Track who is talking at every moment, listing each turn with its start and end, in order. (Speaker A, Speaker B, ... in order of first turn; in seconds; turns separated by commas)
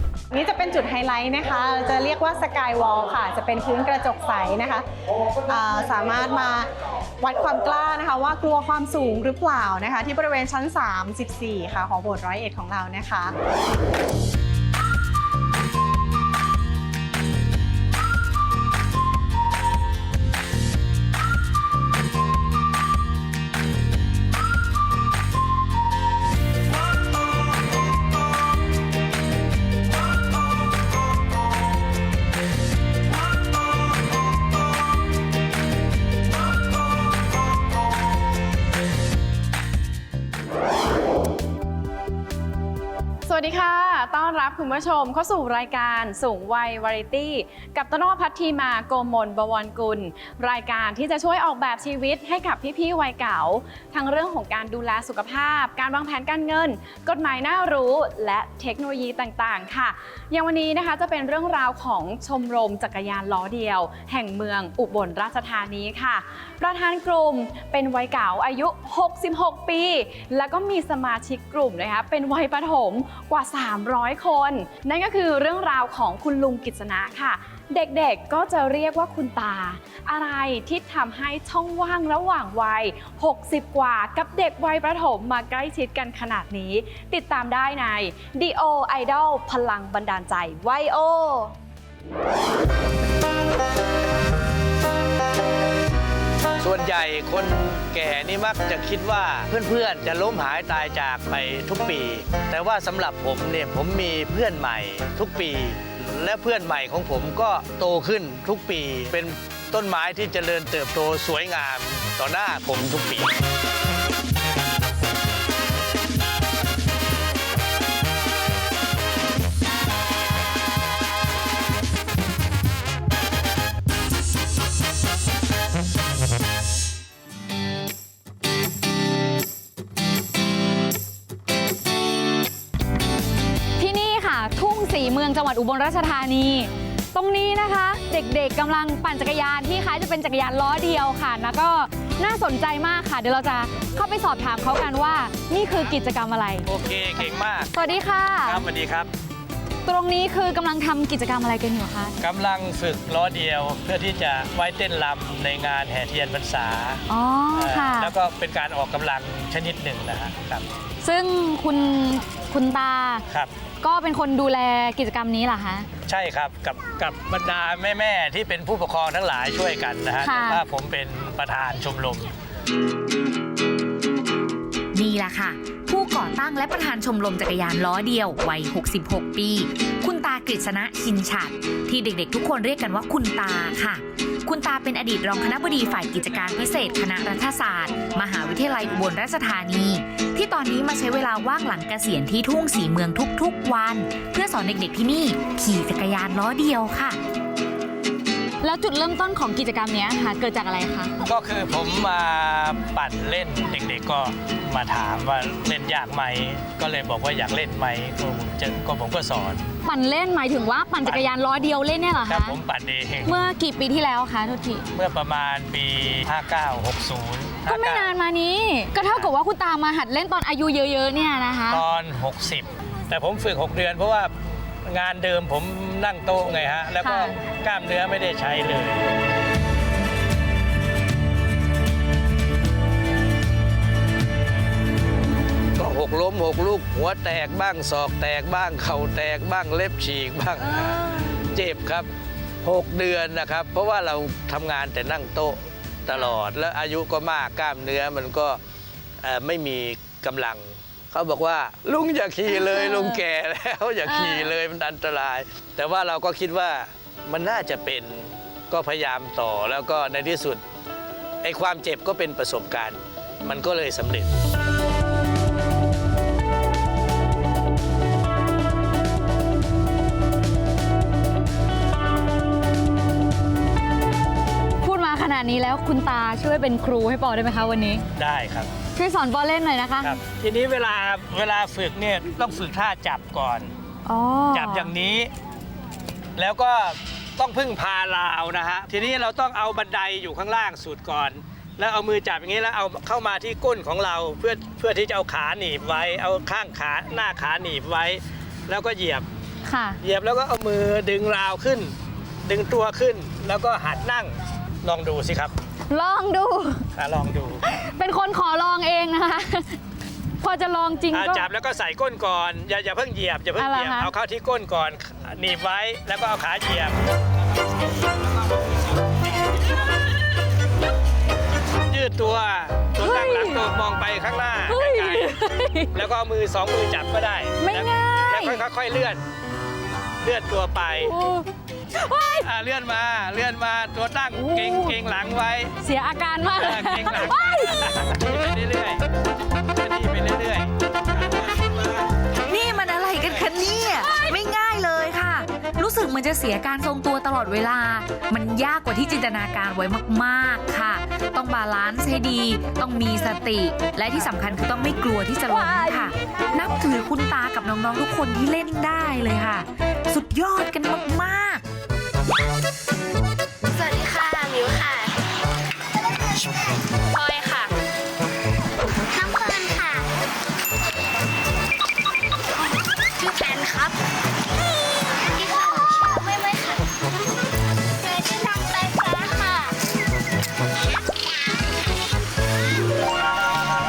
Speaker A: 0.3-4.8, Speaker A: 5.5-13.3, Speaker B: 43.2-91.5, Speaker C: 96.6-113.3, Speaker D: 133.8-146.7, Speaker C: 146.6-147.7, Speaker D: 147.7-148.7, Speaker C: 148.4-149.1, Speaker D: 149.8-152.2, Speaker C: 152.2-157.0, Speaker D: 157.1-158.1, Speaker C: 157.5-160.6, Speaker D: 161.0-163.2, Speaker D: 163.8-165.9, Speaker C: 166.1-172.3, Speaker D: 170.2-170.6, Speaker E: 174.9-197.2, Speaker D: 198.6-201.1, Speaker C: 201.2-209.6, Speaker D: 209.8-212.6, Speaker C: 211.0-211.3, Speaker C: 212.2-213.4, Speaker D: 213.2-214.8, Speaker C: 214.9-218.1, Speaker D: 217.7-221.8, Speaker C: 218.9-219.3, Speaker C: 221.7-224.3, Speaker C: 224.9-229.0, Speaker D: 227.0-227.4, Speaker C: 235.8-242.1, Speaker D: 240.7-241.4, Speaker C: 242.6-248.6, Speaker D: 246.1-246.4, Speaker C: 249.2-260.6, Speaker D: 252.5-253.2, Speaker D: 254.0-254.5, Speaker C: 261.4-264.3, Speaker D: 274.8-278.0, Speaker C: 278.2-278.7, Speaker D: 278.9-280.2, Speaker C: 280.0-283.7, Speaker D: 284.1-284.9, Speaker C: 284.5-285.3, Speaker C: 286.4-299.2, Speaker D: 299.6-300.0, Speaker C: 300.0-301.9, Speaker C: 302.4-305.5, Speaker D: 305.9-306.8, Speaker C: 306.9-307.6, Speaker D: 307.6-309.8, Speaker D: 310.4-311.5, Speaker C: 311.1-317.0, Speaker D: 313.6-314.1, Speaker C: 321.9-325.4, Speaker D: 323.0-323.7, Speaker D: 324.6-326.1, Speaker C: 325.9-329.2, Speaker D: 327.6-328.6, Speaker C: 330.2-331.1, Speaker D: 330.9-332.5, Speaker C: 332.4-335.7, Speaker D: 334.4-335.0, Speaker D: 335.8-337.8, Speaker C: 336.5-339.0, Speaker C: 339.7-340.7, Speaker E: 342.4-361.6, Speaker D: 343.9-344.4, Speaker D: 355.5-356.1, Speaker F: 363.7-365.1, Speaker F: 367.1-367.7, Speaker F: 369.1-370.1, Speaker F: 373.2-373.9, Speaker F: 375.3-376.8, Speaker F: 378.0-379.7